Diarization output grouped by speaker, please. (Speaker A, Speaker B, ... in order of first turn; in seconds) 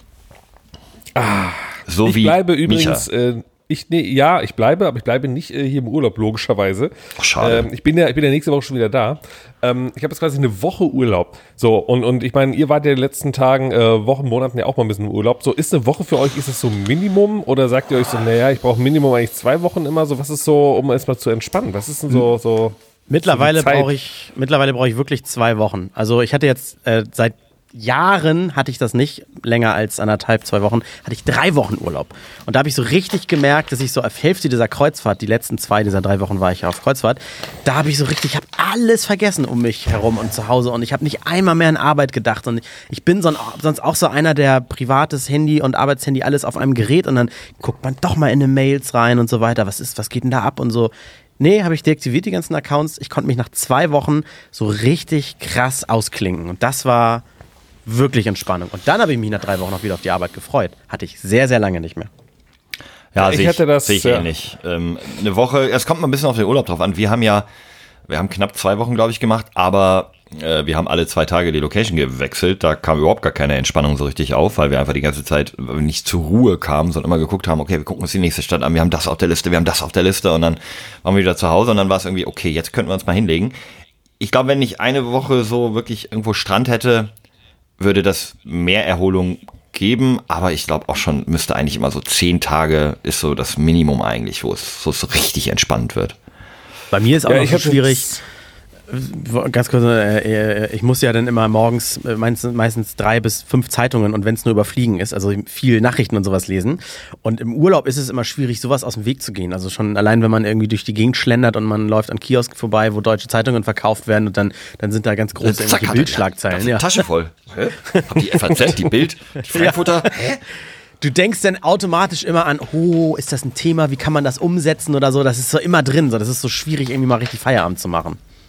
Speaker A: 1.2-22.8, 23.3-23.9, 63.2-64.3, 97.3-98.1
Speaker B: 1.9-3.0, 7.2-7.7, 63.1-67.5, 68.1-83.5, 84.2-87.1, 87.8-96.2, 115.4-120.4
Speaker C: 23.1-57.2, 57.9-62.1, 96.9-98.2, 98.9-117.0, 117.9-118.7, 119.5-120.2, 121.0-128.2